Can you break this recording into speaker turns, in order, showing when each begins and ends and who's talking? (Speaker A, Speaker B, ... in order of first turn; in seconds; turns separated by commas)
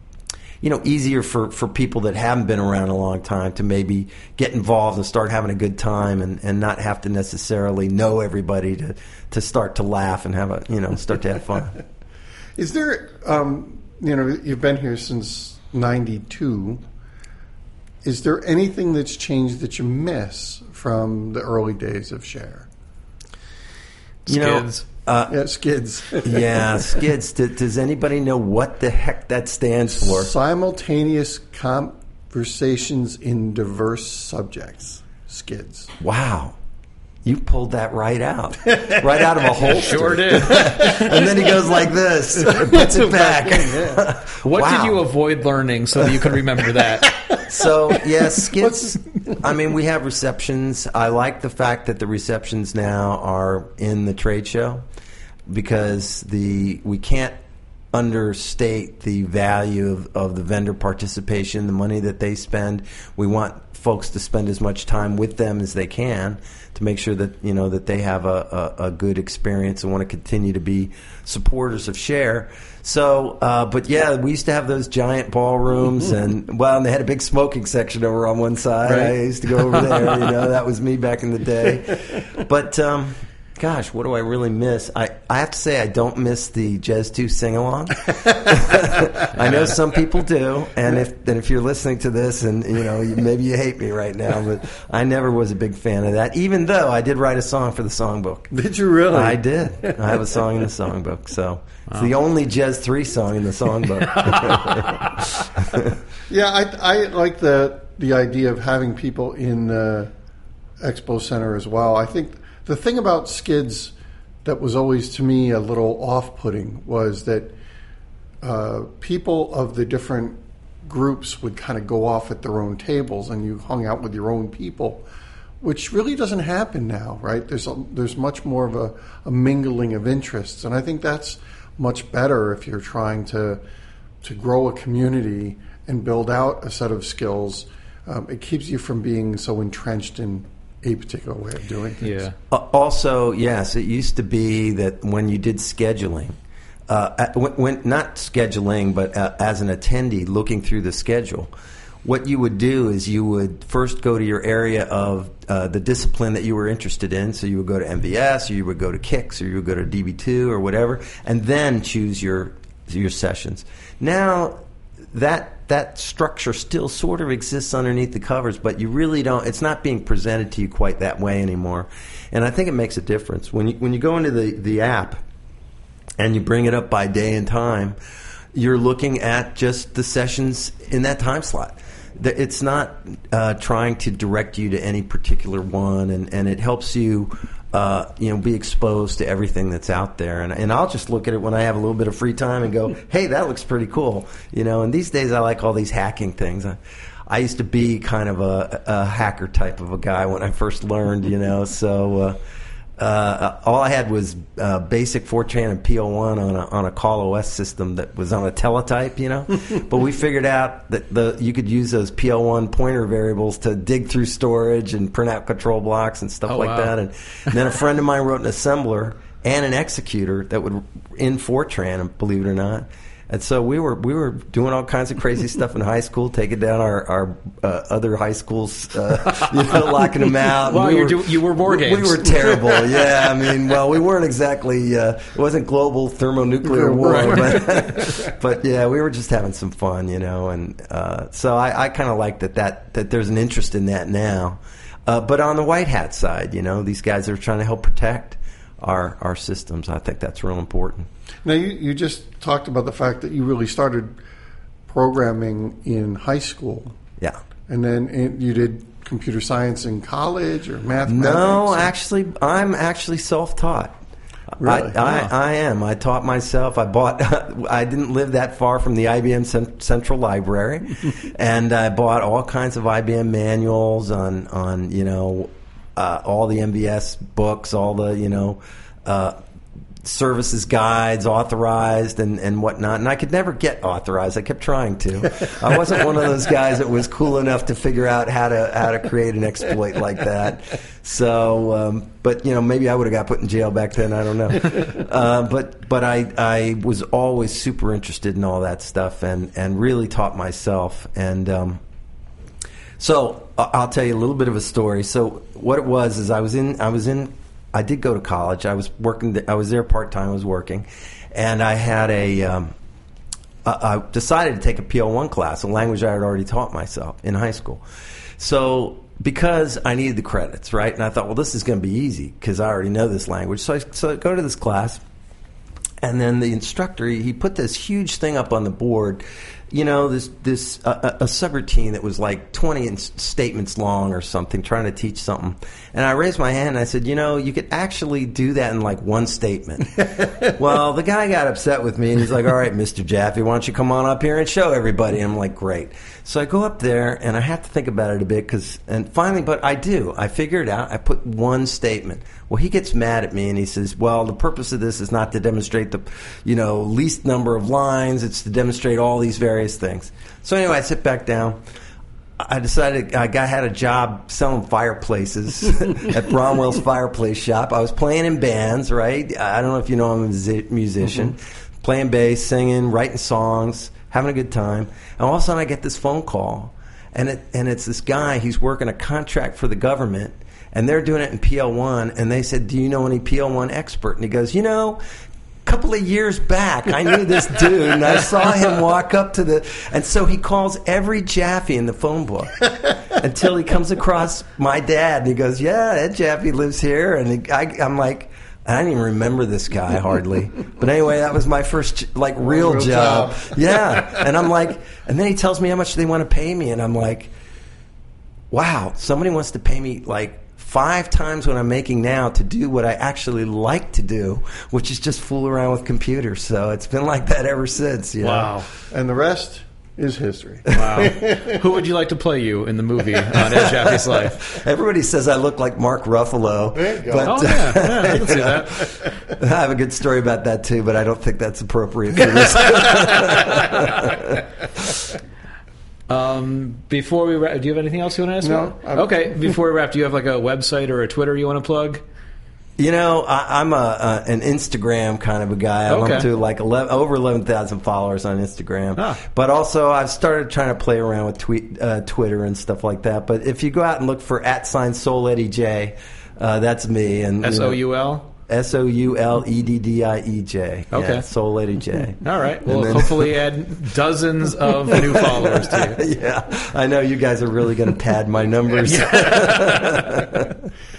Speaker A: 0.6-11.8, Speaker B: 12.6-16.8, Speaker B: 18.0-22.7, Speaker C: 24.2-24.8, Speaker A: 24.3-25.4, Speaker B: 25.3-26.8, Speaker A: 26.2-30.3, Speaker B: 29.9-35.9, Speaker A: 36.0-36.5, Speaker A: 37.2-45.0, Speaker C: 39.6-41.2, Speaker B: 40.6-41.0, Speaker B: 42.4-44.0, Speaker C: 44.4-47.2, Speaker A: 47.4-54.8, Speaker B: 48.4-48.8, Speaker A: 55.5-57.4, Speaker A: 57.9-98.5, Speaker C: 89.4-89.7, Speaker B: 98.5-100.3, Speaker A: 99.1-106.0, Speaker B: 106.3-110.1, Speaker B: 110.8-117.5, Speaker B: 118.4-125.0, Speaker B: 125.6-133.6, Speaker B: 134.2-142.2, Speaker C: 142.0-142.3, Speaker A: 142.5-146.3, Speaker A: 146.9-151.5, Speaker A: 152.0-164.6, Speaker A: 165.1-175.2, Speaker A: 176.2-177.9, Speaker A: 178.5-202.4, Speaker A: 203.0-251.1, Speaker C: 216.5-216.9, Speaker C: 229.7-232.6, Speaker B: 236.6-238.3, Speaker B: 251.4-254.2, Speaker B: 254.9-256.9, Speaker B: 257.7-261.9, Speaker A: 261.1-263.9, Speaker B: 264.6-265.0, Speaker A: 264.6-279.4, Speaker C: 265.0-265.3, Speaker A: 280.0-301.8, Speaker A: 303.0-312.7, Speaker A: 313.6-317.8, Speaker A: 318.4-325.0, Speaker A: 326.0-361.6, Speaker A: 362.4-385.0, Speaker A: 385.6-407.3, Speaker B: 402.4-403.6, Speaker A: 408.5-418.5, Speaker C: 418.2-418.6, Speaker B: 418.3-421.6, Speaker C: 420.7-424.6, Speaker A: 420.7-421.1, Speaker A: 423.4-435.1, Speaker B: 426.7-427.8, Speaker C: 427.2-428.9, Speaker C: 436.1-442.0, Speaker B: 438.4-439.5, Speaker A: 442.8-457.8, Speaker C: 445.9-446.3, Speaker C: 457.4-458.3, Speaker A: 458.5-463.3, Speaker C: 460.9-461.2, Speaker C: 462.2-466.0, Speaker A: 464.9-470.6, Speaker C: 468.8-470.2